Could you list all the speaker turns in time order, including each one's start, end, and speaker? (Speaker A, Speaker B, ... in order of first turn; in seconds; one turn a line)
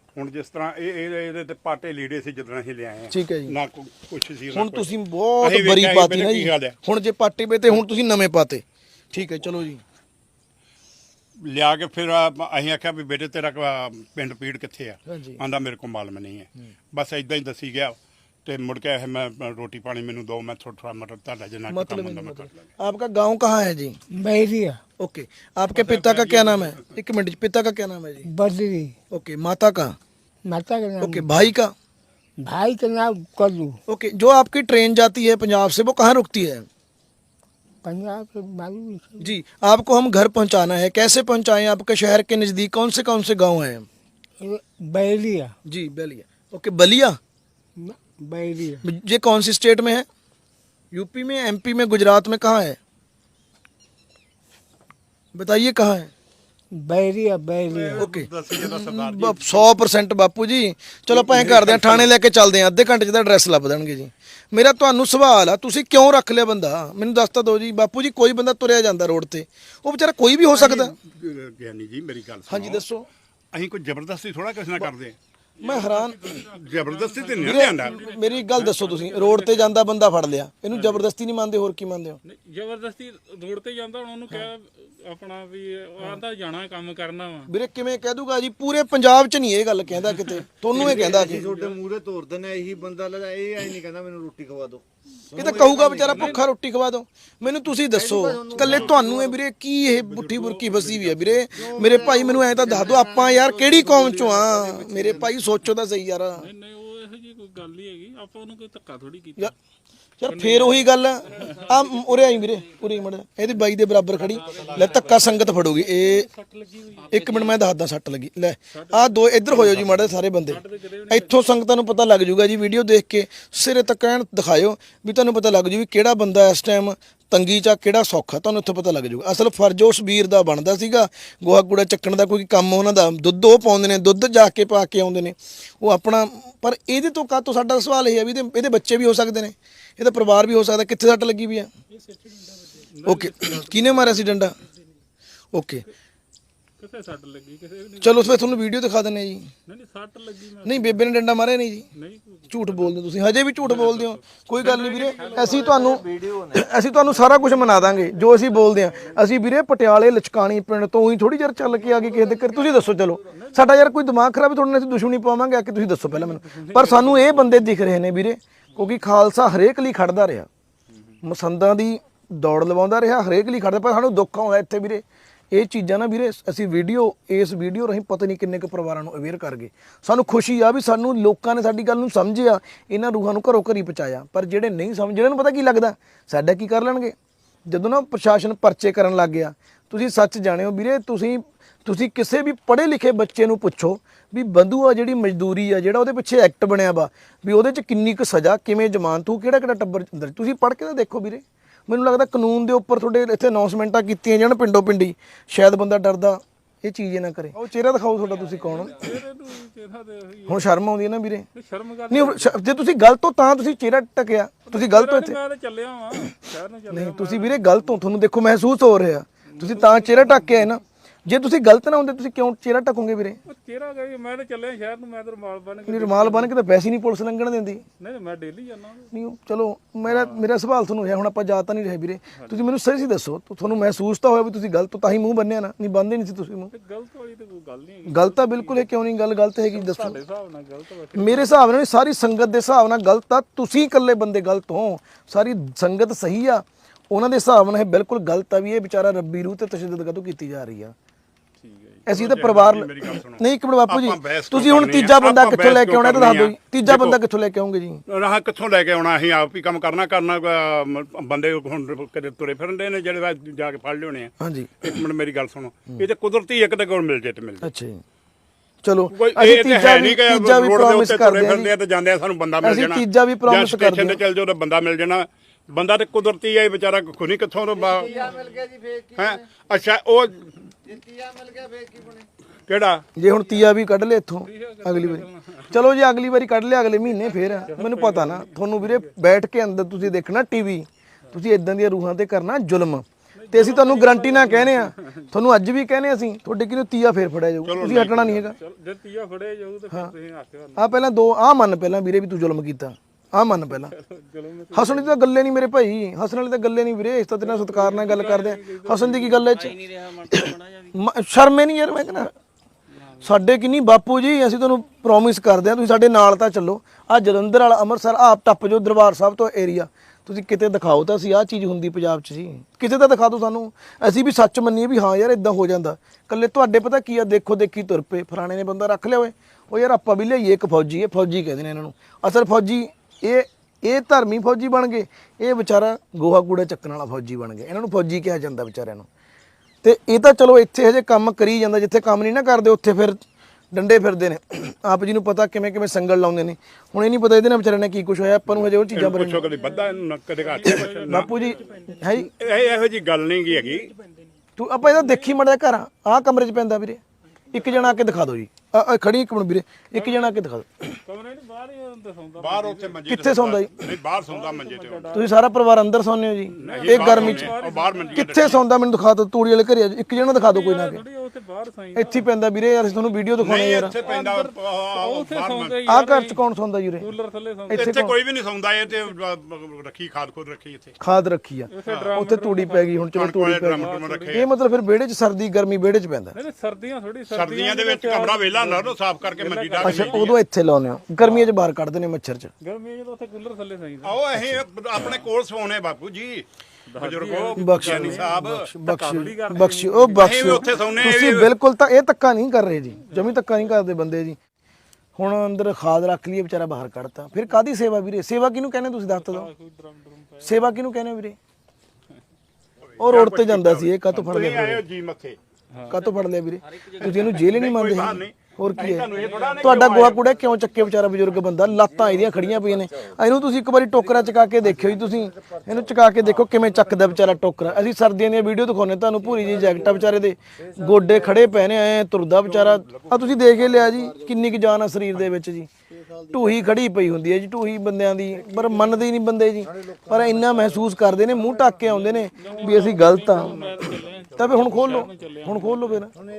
Speaker A: 0.1-4.9
Speaker B: 3.1-3.5
Speaker B: 4.5-9.8
Speaker A: 5.4-6.8
Speaker A: 11.4-22.7
Speaker B: 15.1-15.4
Speaker B: 21.7-24.0
Speaker C: 24.1-24.8
Speaker B: 25.0-28.3
Speaker A: 25.8-26.8
Speaker C: 28.3-28.9
Speaker B: 29.1-30.0
Speaker C: 30.5-31.4
Speaker B: 31.0-31.7
Speaker C: 32.4-33.8
Speaker B: 33.9-36.7
Speaker C: 37.8-39.3
Speaker B: 39.2-43.9
Speaker C: 44.4-45.5
Speaker B: 45.7-47.2
Speaker C: 47.8-48.9
Speaker B: 48.8-50.1
Speaker B: 50.9-52.8
Speaker B: 55.3-56.1
Speaker C: 56.8-58.0
Speaker A: 57.7-59.7
Speaker B: 58.0-71.0
Speaker A: 61.1-62.1
Speaker A: 70.5-72.8
Speaker B: 72.5-73.1
Speaker A: 73.5-75.2
Speaker B: 75.6-76.3
Speaker D: 75.6-79.8
Speaker A: 76.5-78.0
Speaker B: 77.4-82.2
Speaker D: 80.7-81.0
Speaker D: 82.2-87.5
Speaker B: 87.5-91.5
Speaker E: 90.7-94.8
Speaker D: 90.8-91.8
Speaker B: 95.3-106.5
Speaker D: 96.1-96.4
Speaker A: 98.6-99.1
Speaker A: 100.0-101.9
Speaker E: 102.2-102.5
Speaker D: 106.4-109.5
Speaker B: 110.2-116.3
Speaker D: 110.2-111.7
Speaker D: 114.2-117.6
Speaker B: 117.1-141.7
Speaker D: 118.7-121.3
Speaker D: 142.0-144.6
Speaker B: 143.1-144.6
Speaker B: 145.5-145.9
Speaker D: 146.8-148.6
Speaker B: 148.0-149.5
Speaker D: 149.7-151.0
Speaker B: 150.6-151.9
Speaker D: 151.9-153.0
Speaker B: 152.5-170.5
Speaker D: 153.6-156.2
Speaker D: 157.4-159.2
Speaker D: 163.3-163.8
Speaker D: 166.1-167.6
Speaker D: 170.9-171.2
Speaker B: 171.2-187.2
Speaker B: 187.7-209.1
Speaker D: 208.6-210.7
Speaker B: 210.5-211.5
Speaker D: 211.6-212.6
Speaker B: 212.1-215.4
Speaker D: 214.7-218.0
Speaker B: 216.9-223.4
Speaker D: 219.5-220.7
Speaker D: 223.5-226.5
Speaker B: 225.9-227.8
Speaker D: 228.0-229.1
Speaker B: 229.1-236.7
Speaker D: 230.1-230.4
Speaker D: 232.3-232.6
Speaker D: 236.7-238.9
Speaker B: 238.1-240.2
Speaker D: 239.7-241.5
Speaker B: 241.2-250.9
Speaker D: 251.6-252.0
Speaker A: 252.1-257.2
Speaker B: 252.1-258.0
Speaker A: 258.1-267.7
Speaker B: 264.4-264.7
Speaker B: 267.6-268.0
Speaker B: 268.8-271.7
Speaker A: 269.1-278.4
Speaker B: 272.6-274.2
Speaker A: 279.1-280.5
Speaker A: 282.7-283.0
Speaker B: 283.2-298.6
Speaker D: 284.4-285.8
Speaker D: 287.4-289.1
Speaker D: 293.4-295.3
Speaker A: 297.6-298.5
Speaker D: 298.5-301.0
Speaker B: 300.8-303.9
Speaker D: 303.7-305.2
Speaker B: 304.7-312.3
Speaker D: 307.4-309.8
Speaker D: 312.9-313.3
Speaker B: 313.2-339.1
Speaker B: 339.8-343.2
Speaker B: 343.7-349.5
Speaker A: 348.9-351.5
Speaker D: 349.5-352.7
Speaker B: 350.6-352.3
Speaker A: 352.4-353.9
Speaker D: 353.6-353.9
Speaker B: 354.6-357.0
Speaker D: 354.9-355.3
Speaker D: 357.5-357.9
Speaker B: 357.5-360.9
Speaker D: 360.0-360.3
Speaker D: 361.1-363.1
Speaker A: 362.4-365.1
Speaker B: 363.1-363.7
Speaker D: 364.3-365.4
Speaker B: 365.1-367.6
Speaker A: 366.6-368.6
Speaker D: 366.6-368.5
Speaker B: 368.1-371.0
Speaker D: 370.4-372.2
Speaker B: 371.9-374.0
Speaker A: 373.4-375.8
Speaker D: 374.0-376.4
Speaker B: 375.9-377.1
Speaker D: 377.0-378.0
Speaker B: 377.7-378.1
Speaker A: 377.7-380.9
Speaker B: 381.0-386.4
Speaker D: 381.7-384.5
Speaker A: 381.9-382.1
Speaker A: 383.2-384.5
Speaker D: 386.3-390.3
Speaker A: 387.3-390.4
Speaker B: 389.8-392.5
Speaker D: 391.2-391.5
Speaker D: 392.6-394.2
Speaker A: 394.0-396.5
Speaker B: 394.4-394.6
Speaker D: 396.9-400.9
Speaker A: 397.0-398.7
Speaker B: 397.6-404.4
Speaker A: 400.2-401.5
Speaker D: 403.1-403.4
Speaker B: 405.2-409.5
Speaker D: 409.1-410.7
Speaker B: 410.4-411.4
Speaker A: 413.0-415.4
Speaker B: 413.0-414.8
Speaker D: 415.7-416.0
Speaker B: 415.9-435.7
Speaker A: 417.0-420.2
Speaker D: 419.1-419.9
Speaker A: 432.4-433.4
Speaker B: 436.3-443.6
Speaker D: 442.4-446.1
Speaker A: 442.4-445.0
Speaker B: 444.4-446.1